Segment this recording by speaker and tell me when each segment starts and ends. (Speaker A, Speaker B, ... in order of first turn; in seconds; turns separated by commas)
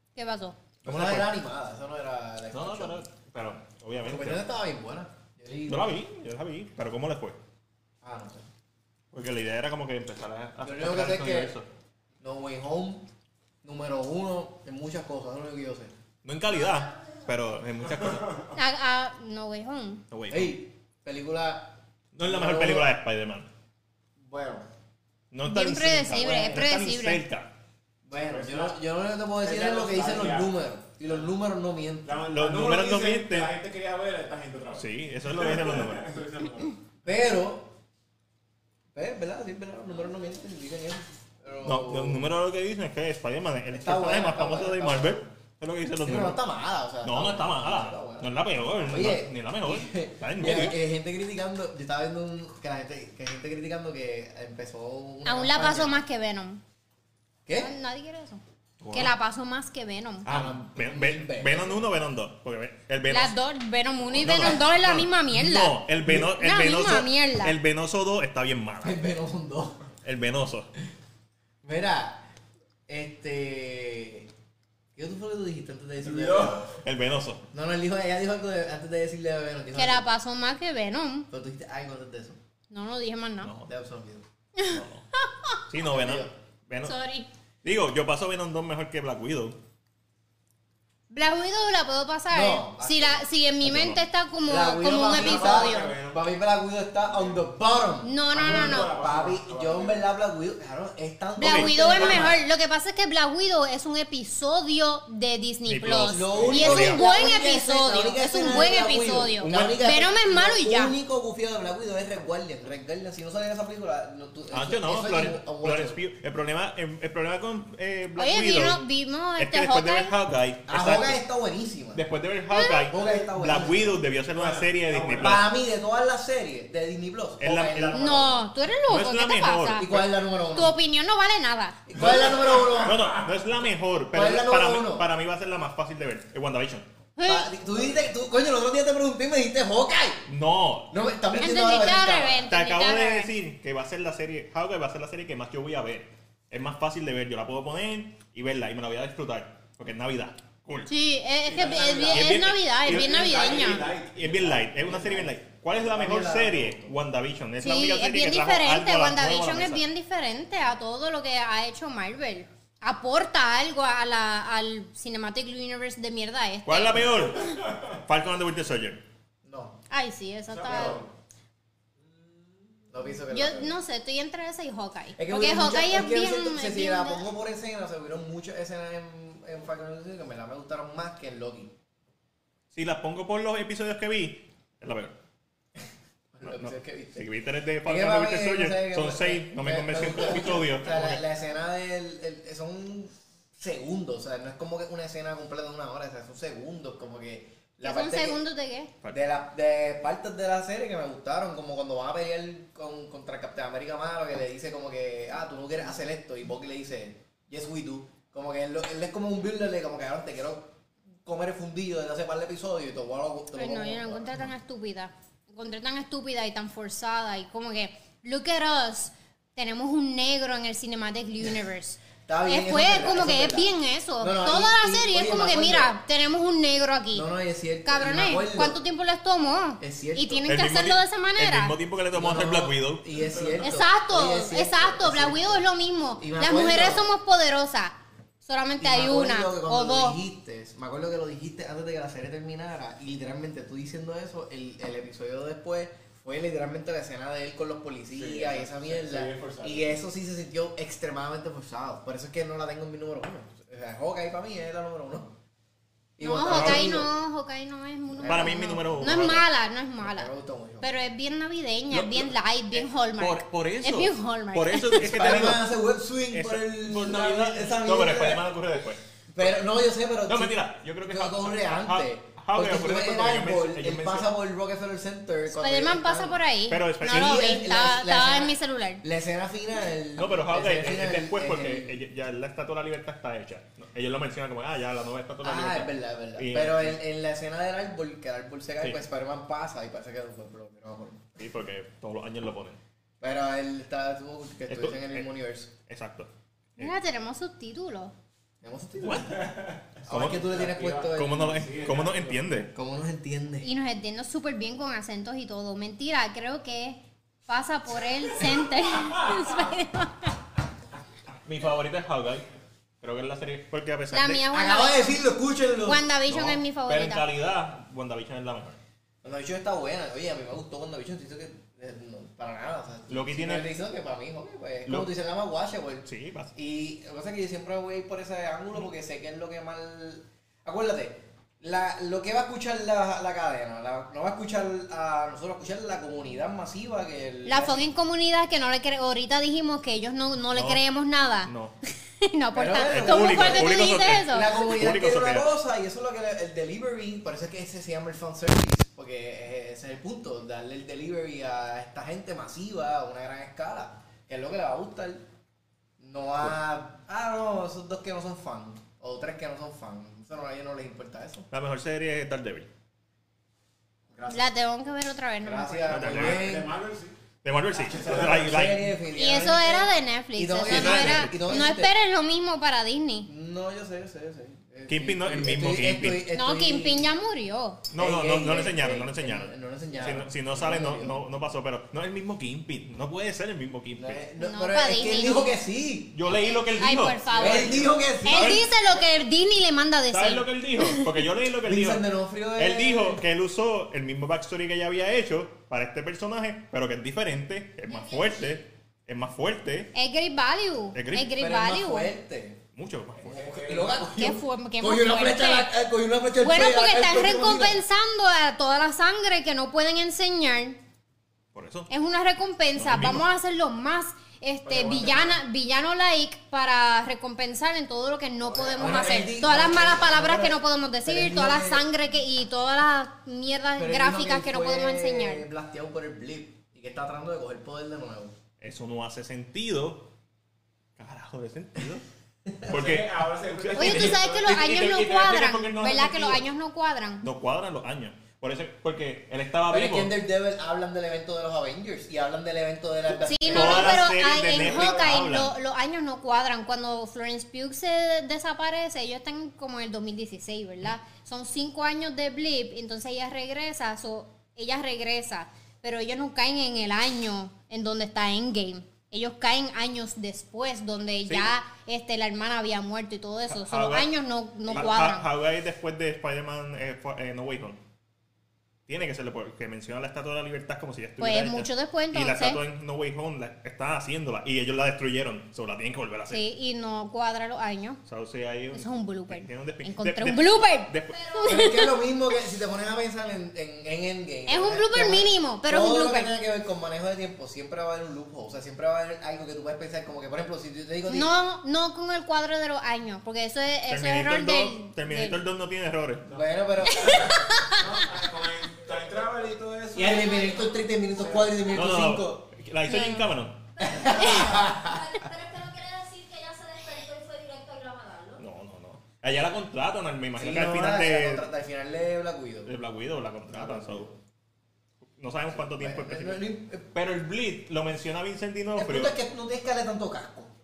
Speaker A: 0.1-0.6, Speaker B: 0.8-3.1, Speaker C: 0.8-1.3, Speaker C: 2.5-4.5, Speaker B: 4.0-6.0, Speaker C: 5.7-7.4, Speaker B: 8.0-8.5, Speaker C: 9.1-11.7, Speaker B: 10.6-11.5, Speaker B: 12.2-13.1, Speaker B: 13.6-15.9, Speaker C: 16.2-18.5, Speaker D: 18.0-18.5, Speaker A: 18.6-20.0, Speaker C: 20.1-20.6, Speaker B: 20.3-22.9, Speaker C: 22.1-23.5, Speaker D: 24.2-24.7, Speaker C: 25.3-27.5, Speaker A: 25.4-27.2, Speaker B: 26.2-26.6, Speaker B: 28.1-32.2, Speaker D: 28.3-28.8, Speaker D: 29.4-30.6, Speaker D: 32.0-36.8, Speaker C: 32.2-33.5, Speaker C: 34.7-36.1, Speaker B: 37.0-37.7, Speaker B: 38.9-42.3, Speaker C: 41.6-46.4, Speaker B: 43.7-45.3, Speaker B: 46.0-56.0, Speaker C: 47.0-50.8, Speaker A: 55.2-56.6, Speaker B: 57.5-57.7, Speaker A: 57.5-58.4, Speaker C: 58.8-59.1, Speaker A: 58.9-60.3, Speaker B: 60.2-61.9, Speaker C: 60.2-63.4, Speaker A: 63.1-67.6, Speaker C: 64.1-69.0, Speaker B: 66.0-66.3, Speaker B: 68.8-69.8, Speaker C: 70.0-70.7, Speaker B: 71.6-72.3, Speaker B: 72.9-74.3, Speaker B: 75.0-76.7, Speaker D: 76.0-76.8, Speaker C: 76.8-77.5, Speaker B: 77.5-80.1, Speaker A: 79.8-81.3, Speaker B: 81.3-82.4, Speaker A: 82.7-83.5, Speaker C: 83.4-83.7, Speaker B: 83.7-84.2, Speaker A: 84.6-85.6, Speaker C: 84.7-85.0, Speaker C: 85.7-86.9, Speaker B: 85.9-86.3, Speaker A: 86.8-87.3, Speaker C: 87.6-89.6, Speaker A: 91.1-95.9, Speaker B: 92.3-93.3, Speaker C: 93.6-94.0, Speaker B: 94.5-102.4, Speaker D: 95.0-96.3, Speaker D: 97.1-97.4, Speaker A: 98.0-98.9, Speaker D: 98.3-100.0, Speaker A: 101.4-111.0, Speaker C: 101.4-102.3, Speaker C: 105.7-107.0, Speaker B: 106.1-116.0, Speaker C: 109.4-109.8, Speaker C: 114.5-118.8, Speaker A: 118.2-120.1, Speaker C: 119.4-121.2, Speaker B: 120.7-122.0, Speaker C: 121.9-125.5, Speaker A: 122.5-122.9, Speaker B: 122.9-124.0, Speaker D: 124.3-125.4, Speaker B: 125.2-128.4, Speaker C: 127.4-128.2, Speaker A: 127.9-130.0, Speaker C: 128.9-130.1, Speaker B: 129.7-130.8, Speaker A: 130.5-131.8, Speaker B: 131.9-133.1, Speaker D: 132.0-133.0, Speaker C: 132.8-136.9, Speaker B: 134.1-135.1, Speaker A: 137.2-137.5, Speaker B: 137.2-140.3, Speaker C: 140.3-140.9, Speaker B: 140.9-142.5, Speaker A: 141.4-143.3, Speaker C: 142.5-150.9, Speaker A: 150.9-153.9, Speaker D: 151.4-155.3, Speaker C: 152.1-159.8, Speaker B: 155.8-156.9, Speaker A: 157.6-167.4, Speaker C: 166.7-169.0, Speaker D: 167.4-167.8, Speaker B: 169.4-169.8, Speaker A: 169.9-171.0, Speaker D: 170.5-171.1, Speaker B: 170.7-171.1, Speaker D: 172.0-173.7, Speaker B: 172.9-173.7, Speaker A: 173.3-177.2, Speaker B: 175.2-181.7, Speaker C: 182.7-185.1, Speaker B: 186.3-187.3, Speaker C: 186.4-191.2, Speaker B: 187.8-198.4, Speaker A: 197.8-198.9, Speaker B: 199.1-210.7, Speaker B: 211.2-214.5, Speaker A: 213.5-227.3, Speaker B: 222.3-226.0, Speaker B: 227.1-228.8, Speaker A: 227.8-231.8, Speaker B: 229.8-230.6, Speaker C: 230.5-233.1, Speaker B: 232.1-235.6, Speaker A: 233.6-240.2, Speaker B: 236.2-237.1, Speaker B: 238.8-255.3, Speaker D: 248.1-250.0, Speaker B: 256.2-257.1, Speaker A: 256.2-260.3, Speaker C: 256.5-257.1, Speaker B: 258.2-259.4, Speaker C: 258.2-259.5, Speaker B: 260.0-260.9, Speaker A: 260.8-265.4, Speaker C: 261.9-265.7, Speaker B: 265.0-268.5, Speaker C: 266.3-269.0, Speaker B: 269.3-276.4, Speaker C: 270.3-274.3, Speaker A: 275.5-279.0, Speaker C: 276.7-277.5, Speaker B: 277.0-282.0, Speaker C: 280.2-287.0, Speaker B: 285.4-291.4, Speaker C: 291.4-292.8, Speaker B: 293.2-295.7, Speaker C: 294.7-295.3, Speaker C: 295.9-296.9, Speaker A: 296.8-298.1, Speaker B: 298.6-299.5, Speaker C: 299.0-299.3, Speaker D: 299.3-302.6, Speaker B: 300.1-301.7, Speaker C: 300.1-300.4, Speaker C: 301.1-302.7, Speaker B: 302.7-303.7, Speaker A: 303.6-310.4, Speaker C: 311.4-312.5, Speaker C: 313.0-314.4, Speaker A: 314.1-315.2, Speaker B: 314.5-316.0, Speaker A: 315.9-317.3, Speaker C: 316.3-318.8, Speaker B: 319.2-337.9, Speaker C: 323.1-323.7, Speaker C: 324.9-325.1, Speaker C: 326.1-326.5, Speaker A: 337.5-341.5, Speaker C: 340.5-340.8, Speaker C: 341.4-341.7, Speaker A: 342.2-344.5, Speaker B: 342.5-355.2, Speaker C: 342.8-345.5, Speaker B: 356.0-361.5, Speaker C: 361.5-362.7, Speaker B: 364.1-364.5, Speaker A: 364.3-366.0, Speaker B: 365.4-366.7, Speaker C: 365.9-366.5, Speaker D: 366.0-367.1, Speaker C: 367.4-368.9, Speaker D: 367.7-368.7, Speaker B: 367.9-371.9, Speaker A: 369.1-373.3, Speaker C: 370.7-371.7, Speaker B: 373.2-377.1, Speaker C: 374.9-376.3, Speaker A: 376.3-377.8, Speaker C: 377.9-384.2, Speaker B: 378.0-381.2, Speaker B: 383.9-386.2, Speaker A: 384.4-385.6, Speaker C: 386.1-388.7, Speaker A: 386.8-391.1, Speaker B: 387.3-388.7, Speaker D: 387.4-387.9, Speaker C: 390.1-392.0, Speaker B: 391.6-393.2, Speaker C: 392.6-399.9, Speaker E: 397.9-398.5, Speaker A: 399.9-402.1, Speaker C: 400.9-401.3, Speaker B: 401.4-402.6, Speaker C: 402.8-403.3, Speaker B: 403.2-407.8, Speaker D: 403.2-404.1, Speaker A: 404.2-405.7, Speaker A: 406.4-410.8, Speaker C: 411.5-411.9, Speaker A: 411.9-425.5, Speaker C: 412.8-413.2, Speaker D: 414.6-415.4, Speaker D: 418.4-419.5, Speaker B: 418.8-421.9, Speaker B: 423.8-428.3, Speaker C: 428.6-430.1, Speaker C: 431.0-432.0, Speaker B: 432.5-432.7, Speaker C: 432.7-436.4, Speaker D: 432.7-434.5, Speaker A: 433.7-437.3, Speaker C: 437.2-440.2, Speaker B: 439.7-444.9, Speaker A: 443.2-465.3, Speaker C: 443.5-445.5, Speaker C: 463.5-464.1, Speaker C: 464.6-467.8, Speaker C: 468.9-476.4, Speaker A: 471.2-472.6, Speaker A: 476.3-478.0, Speaker C: 478.1-481.2, Speaker A: 478.7-482.0, Speaker E: 481.1-481.8, Speaker B: 481.4-491.3, Speaker A: 484.5-486.4, Speaker A: 491.1-495.4, Speaker C: 493.9-496.3, Speaker B: 496.3-497.3, Speaker A: 496.9-497.8, Speaker D: 497.0-500.6, Speaker B: 499.9-502.5, Speaker E: 500.2-500.8, Speaker D: 501.2-501.7, Speaker C: 501.7-503.6, Speaker A: 502.8-503.3, Speaker E: 503.8-508.4, Speaker B: 503.8-505.1, Speaker A: 504.1-504.6, Speaker C: 508.4-511.5, Speaker B: 510.4-512.7, Speaker C: 512.6-514.1, Speaker B: 513.5-514.2, Speaker C: 515.2-519.1, Speaker B: 515.8-516.9, Speaker B: 518.8-520.5